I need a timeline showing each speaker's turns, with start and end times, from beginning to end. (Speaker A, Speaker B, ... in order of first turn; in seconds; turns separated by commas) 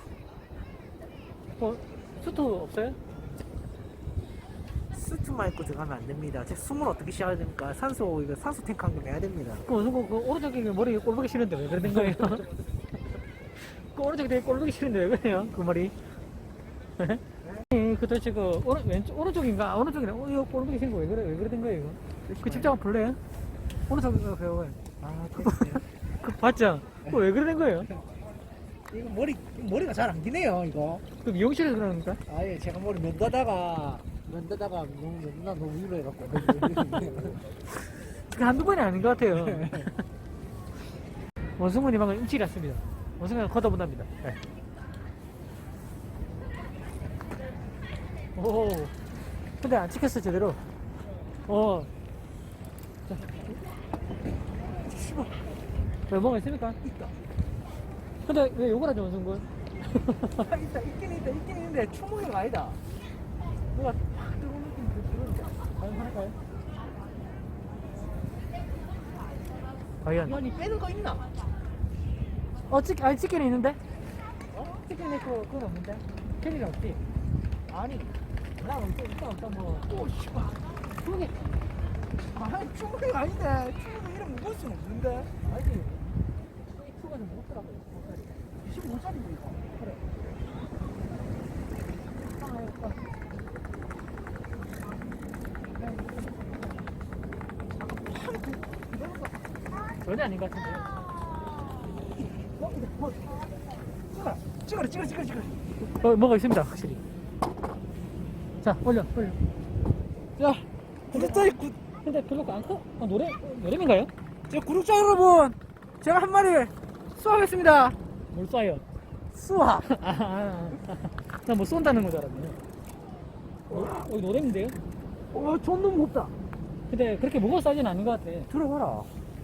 Speaker A: 1.6-3.0, Speaker B: 4.9-9.7, Speaker A: 9.6-12.4, Speaker A: 13.6-15.9, Speaker A: 17.0-23.2, Speaker B: 22.3-22.7, Speaker A: 23.9-24.8, Speaker B: 25.0-25.9, Speaker A: 26.2-27.9, Speaker B: 28.9-31.0, Speaker A: 31.2-32.2, Speaker B: 32.3-37.4, Speaker A: 38.2-40.0, Speaker B: 39.4-39.9, Speaker A: 41.6-44.4, Speaker A: 48.4-48.9, Speaker A: 49.6-50.6, Speaker A: 51.4-51.9, Speaker A: 53.1-53.5, Speaker B: 54.8-55.5, Speaker A: 56.1-56.8, Speaker B: 56.8-57.1, Speaker A: 58.2-60.4, Speaker B: 60.3-62.8, Speaker B: 63.7-65.6, Speaker A: 65.8-66.4, Speaker A: 70.0-70.4, Speaker B: 70.2-71.3, Speaker A: 72.7-73.8, Speaker B: 74.5-74.8, Speaker A: 74.9-77.0, Speaker B: 77.7-78.1, Speaker A: 78.6-79.9, Speaker B: 79.8-80.6, Speaker A: 80.9-81.5, Speaker B: 82.2-85.3, Speaker A: 85.4-88.5, Speaker B: 88.6-90.0, Speaker A: 92.3-93.0, Speaker B: 95.8-96.2, Speaker B: 97.8-99.4, Speaker A: 100.0-101.0, Speaker B: 102.6-103.4, Speaker B: 104.1-105.6, Speaker A: 105.8-107.0, Speaker A: 108.6-109.4, Speaker B: 110.4-111.8, Speaker A: 111.1-111.5, Speaker A: 112.0-114.1, Speaker B: 114.5-118.0, Speaker A: 118.3-118.8, Speaker B: 119.3-119.9, Speaker A: 119.9-122.6, Speaker B: 123.7-124.0, Speaker A: 123.7-124.8, Speaker B: 125.3-126.3, Speaker A: 126.9-128.5, Speaker B: 128.5-129.1